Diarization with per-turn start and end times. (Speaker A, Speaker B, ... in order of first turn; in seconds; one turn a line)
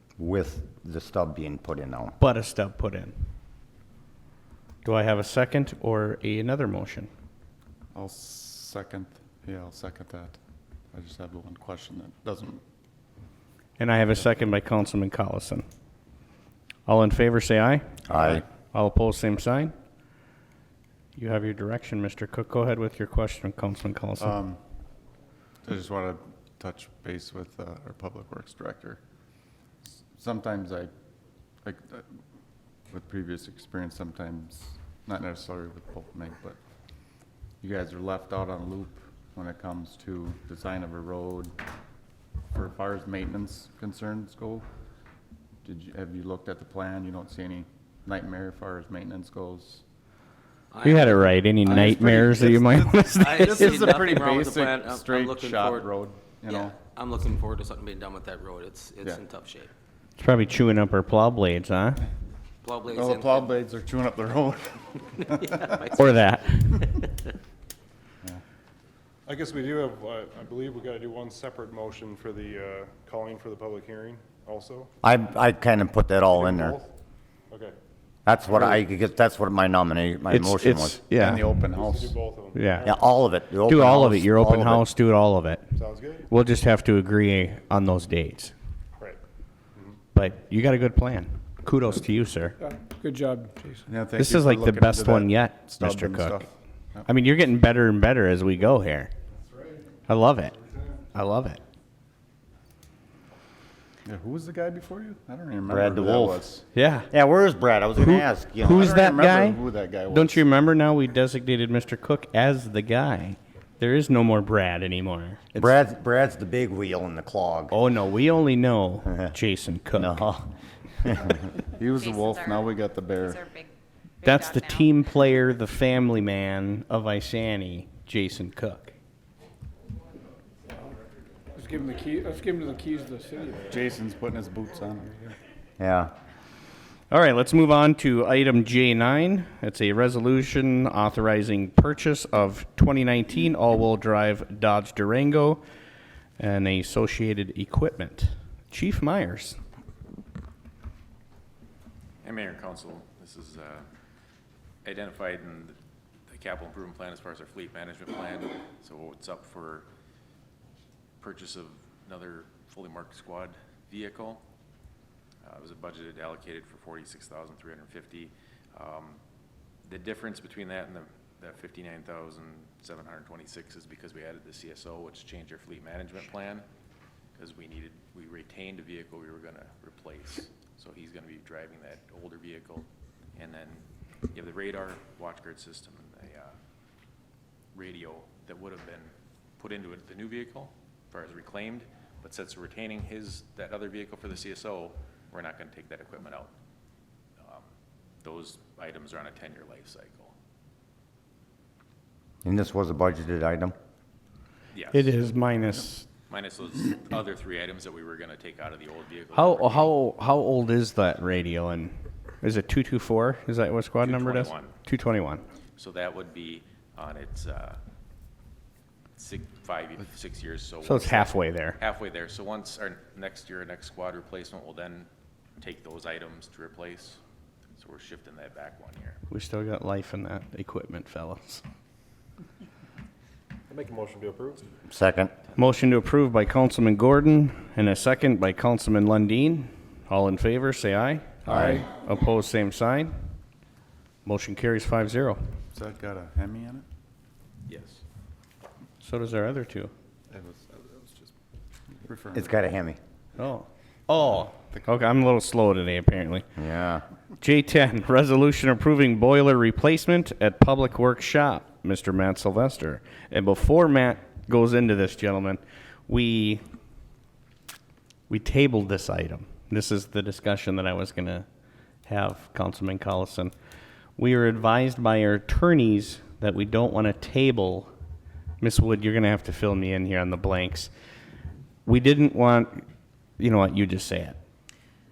Speaker A: 0.2-2.1
Speaker B: 2.2-3.1
Speaker B: 4.8-7.1
Speaker C: 7.9-10.4
Speaker C: 10.9-12.6
Speaker B: 13.8-15.6
Speaker B: 16.9-19.7
Speaker A: 18.1-18.4
Speaker B: 21.2-24.3
Speaker C: 24.2-24.6
Speaker C: 25.6-29.0
Speaker C: 30.0-30.9
Speaker C: 31.6-32.0
Speaker C: 32.9-36.6
Speaker C: 37.6-41.5
Speaker C: 42.5-44.7
Speaker C: 45.6-49.8
Speaker D: 50.7-59.7
Speaker B: 50.8-53.9
Speaker C: 51.7-56.8
Speaker C: 59.0-59.2
Speaker B: 60.2-62.0
Speaker D: 62.6-63.5
Speaker C: 62.9-65.8
Speaker D: 65.2-66.9
Speaker B: 65.9-66.9
Speaker E: 69.3-74.9
Speaker A: 75.0-76.8
Speaker E: 76.4-76.9
Speaker E: 77.5-77.8
Speaker A: 78.3-81.0
Speaker B: 80.3-81.5
Speaker C: 81.1-82.2
Speaker E: 81.7-82.9
Speaker B: 82.5-82.9
Speaker A: 82.8-84.8
Speaker B: 83.7-85.7
Speaker E: 85.7-86.3
Speaker B: 86.3-88.5
Speaker B: 90.1-92.6
Speaker F: 92.6-93.8
Speaker C: 93.9-97.1
Speaker B: 94.2-96.4
Speaker B: 97.1-99.1
Speaker B: 100.1-100.6
Speaker B: 101.1-101.6
Speaker C: 104.0-106.6
Speaker A: 105.7-106.4
Speaker B: 106.7-107.1
Speaker A: 107.1-109.0
Speaker B: 108.0-109.6
Speaker C: 108.7-110.4
Speaker B: 110.1-115.7
Speaker A: 115.5-117.7
Speaker B: 117.7-120.2
Speaker A: 120.0-120.5
Speaker A: 121.0-121.4
Speaker C: 121.7-123.4
Speaker G: 122.0-125.1
Speaker B: 124.2-128.9
Speaker F: 131.6-133.7
Speaker C: 133.7-135.1
Speaker A: 135.8-136.1
Speaker B: 137.1-145.6
Speaker B: 146.4-149.6
Speaker H: 152.2-153.9
Speaker H: 154.8-155.8
Speaker H: 156.3-159.9
Speaker H: 161.2-164.4
Speaker H: 165.4-169.2
Speaker H: 169.8-176.7
Speaker H: 177.4-186.5
Speaker H: 187.7-196.5
Speaker H: 197.4-197.7
Speaker H: 198.2-200.3
Speaker A: 202.4-203.8
Speaker H: 204.7-205.1
Speaker B: 204.9-206.1
Speaker H: 206.3-209.9
Speaker B: 209.3-215.4
Speaker H: 214.0-214.7
Speaker H: 215.8-217.8
Speaker H: 219.2-227.2
Speaker B: 220.8-221.8
Speaker H: 227.8-229.2
Speaker B: 229.3-231.6
Speaker E: 233.7-234.6
Speaker A: 234.9-235.3
Speaker B: 235.6-243.2
Speaker A: 241.5-241.8
Speaker B: 244.2-245.4
Speaker C: 245.7-246.8
Speaker H: 247.7-248.0
Speaker B: 249.0-249.9
Speaker C: 250.3-251.3
Speaker C: 251.9-252.6
Speaker A: 252.3-253.0
Speaker B: 253.4-256.5
Speaker A: 256.6-257.1
Speaker B: 257.4-266.6
Speaker B: 268.3-271.4
Speaker B: 272.1-273.5
Speaker B: 274.2-277.9
Speaker B: 278.6-280.9
Speaker B: 281.9-282.9
Speaker B: 283.4-284.4